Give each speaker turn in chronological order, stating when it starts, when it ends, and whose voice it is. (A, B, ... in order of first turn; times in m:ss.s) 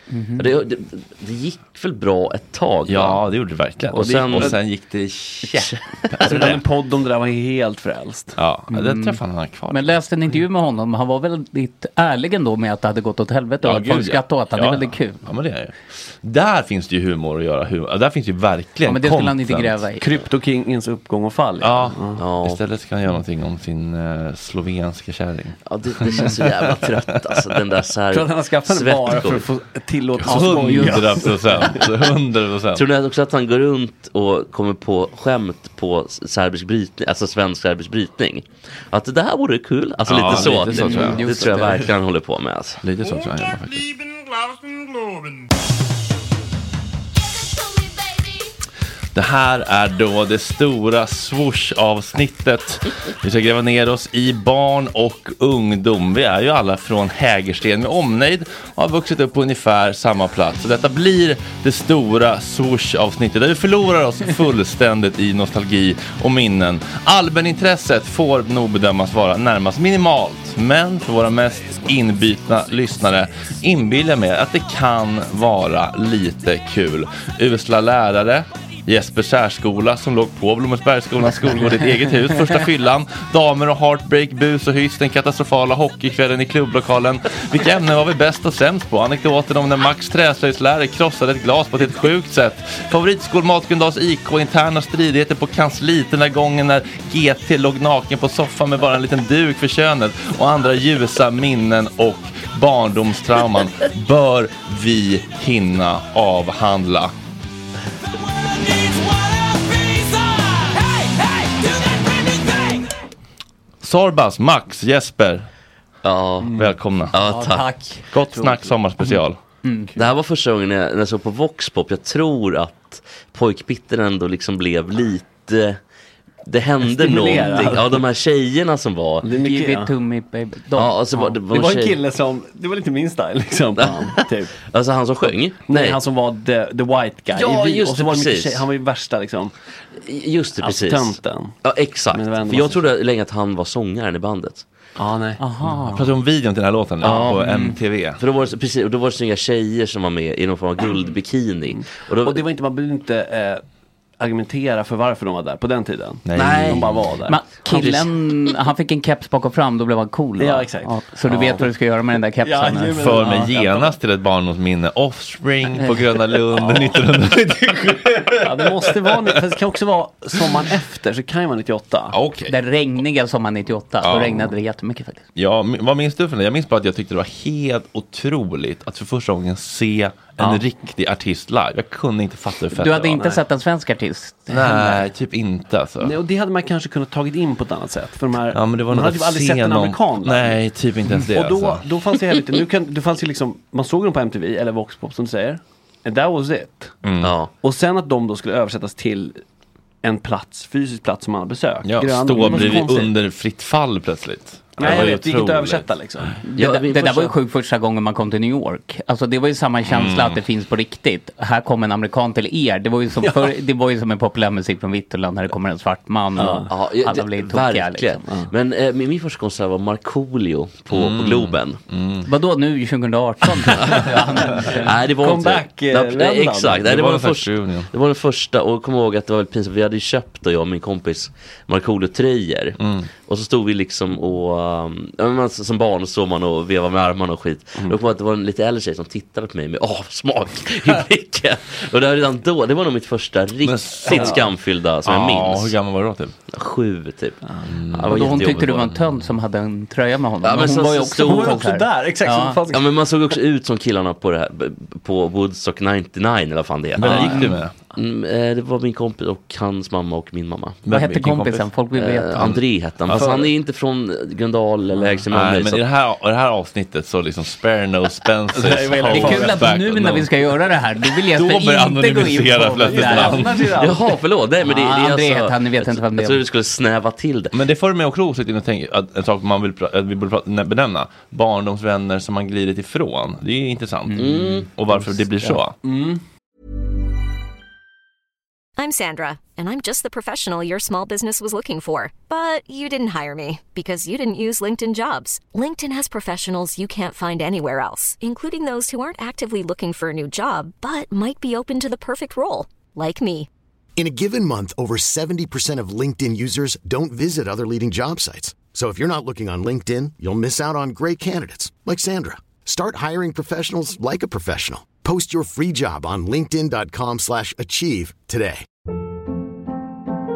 0:00.1-0:00.4 A
0:00.4-0:03.2 B
0:02.8-0:06.6 C
0:03.9-0:04.6 B
0:04.0-0:04.6 D
0:06.2-0:08.4 D
0:08.4-0:10.0 C
0:08.7-0:09.2 A
0:09.7-0:15.2 A
0:13.6-0:19.9 C
0:18.9-0:20.0 A
0:20.0-0:22.2 D
0:21.6-0:27.5 C
0:22.2-0:22.6 B
0:25.7-0:29.5 B
0:28.1-0:31.9 D
0:30.2-0:32.8 C
0:30.2-0:31.1 A
0:32.7-0:42.8 B
0:40.0-0:41.3 C
0:40.6-0:41.8 A
0:42.8-0:44.0 C
0:49.1-1:47.1 C
1:53.8-1:55.5 C
1:56.0-1:56.6 B
1:56.5-1:56.7 D
1:56.5-1:57.1 C
1:57.1-1:57.9 B
1:57.2-1:58.0 A
1:58.1-1:59.4 C
1:58.4-1:58.7 D
2:00.0-2:05.8 B
2:06.4-2:09.3 B
2:06.9-2:08.0 D
2:07.0-2:07.8 A
2:09.2-2:09.9 D
2:09.3-2:11.3 A
2:10.8-2:12.0 B
2:11.4-2:14.5 D
2:13.8-2:16.0 B
2:15.6-2:19.5 D
2:17.3-2:18.6 B
2:20.0-2:24.6 B
2:20.6-2:21.6 D
2:22.1-2:22.9 D
2:25.0-2:25.4 D
2:25.4-2:26.0 A
2:25.8-2:28.2 C
2:27.0-2:27.4 D
2:27.0-2:27.3 B
2:27.3-2:27.8 A
2:28.2-2:32.4 B
2:31.7-2:33.6 D
2:34.2-2:37.4 D
2:36.2-2:37.0 C
2:36.4-2:36.9 B
2:37.3-2:43.4 A
2:37.7-2:38.1 B
2:40.4-2:41.7 D
2:42.4-2:44.0 D
2:43.0-2:49.1 C
2:46.5-2:47.0 D
2:48.4-2:52.2 D
2:52.1-2:52.5 C
2:52.5-2:55.2 A
2:54.0-2:54.5 C
2:55.4-3:03.2 C
3:02.8-3:05.0 A
3:03.1-3:03.4 D
3:04.5-3:06.2 C
3:06.0-3:10.6 D
3:08.5-3:11.9 C
3:11.1-3:17.0 D
3:17.0-3:17.4 C
3:17.2-3:17.5 B
3:17.6-3:19.4 D
3:20.0-3:23.1 D
3:21.8-3:25.8 C
3:22.4-3:22.7 A
3:24.8-3:26.4 D
3:26.4-3:38.3 A
3:26.6-3:27.3 B
3:29.9-3:30.4 C
3:33.2-3:33.5 D
3:36.4-3:36.7 D
3:36.7-3:41.8 B
3:40.9-3:42.3 C
3:42.2-3:44.9 A
3:43.8-3:44.1 B
3:44.6-4:05.7 B
3:45.1-3:46.9 D
3:46.8-3:47.9 C
3:52.8-3:53.1 C
4:03.6-4:04.4 C
4:04.1-4:04.4 D
4:05.0-4:06.3 C
4:06.5-4:07.4 B
4:07.6-4:08.9 C
4:07.9-4:08.9 B
4:08.1-4:12.6 A
4:10.4-4:11.6 B
4:11.1-4:13.4 D
4:12.7-4:20.8 B
4:17.0-4:17.7 C
4:17.1-4:17.5 A
4:20.8-4:21.7 C
4:20.9-4:22.5 A
4:21.9-4:25.8 B
4:22.4-4:23.3 C
4:23.1-4:23.5 D
4:25.3-4:30.3 C
4:28.5-4:29.7 D
4:29.1-4:33.6 A
4:31.2-4:33.7 C
4:32.8-4:34.1 D
4:33.8-4:37.6 B
4:34.6-4:36.4 A
4:37.5-4:45.8 C
4:44.1-4:44.6 A
4:44.2-4:44.7 B
4:45.8-4:46.2 D
4:48.8-5:03.5 E
5:04.0-5:18.6 F